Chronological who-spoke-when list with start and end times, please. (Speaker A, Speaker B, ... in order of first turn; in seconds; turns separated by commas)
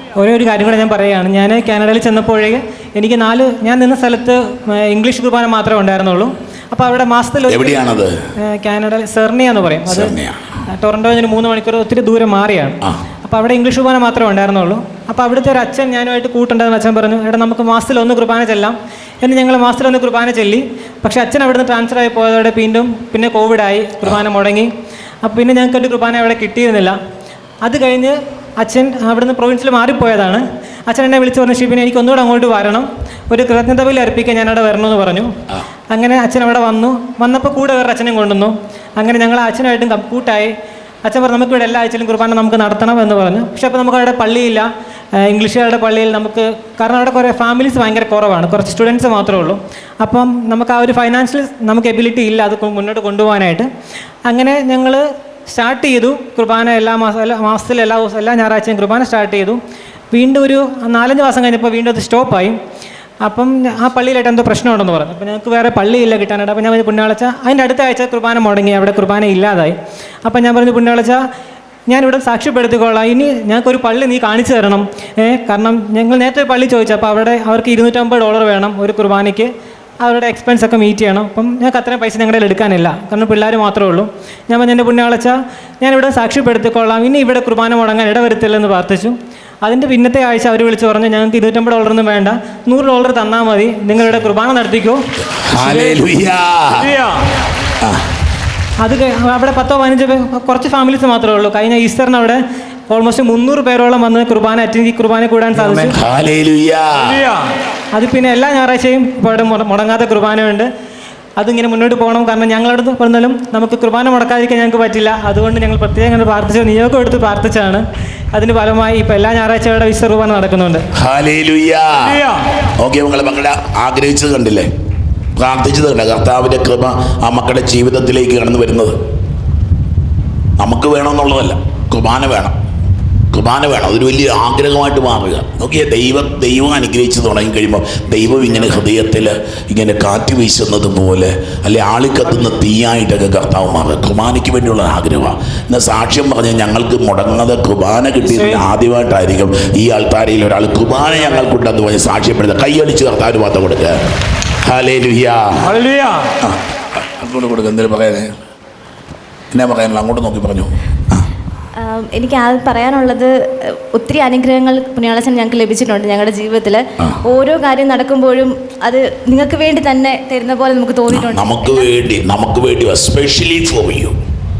Speaker A: 0.2-7.8, Speaker B: 7.5-8.1, Speaker A: 8.4-10.1, Speaker B: 9.9-10.4, Speaker A: 10.7-24.7, Speaker A: 25.2-27.0, Speaker A: 27.6-35.3, Speaker A: 35.9-40.5, Speaker A: 41.0-53.7, Speaker A: 54.3-59.6, Speaker A: 60.1-62.6, Speaker A: 63.2-71.2, Speaker A: 71.9-79.5, Speaker A: 80.0-95.0, Speaker B: 95.3-97.1, Speaker A: 98.8-105.9, Speaker B: 105.9-107.3, Speaker A: 107.9-110.7, Speaker A: 111.4-117.8, Speaker A: 118.3-120.8, Speaker B: 121.0-124.7, Speaker B: 125.4-129.0, Speaker B: 130.6-132.5, Speaker B: 133.3-154.0, Speaker B: 154.7-155.8, Speaker B: 156.4-158.3, Speaker B: 159.5-161.3, Speaker C: 161.8-171.9, Speaker B: 171.1-174.2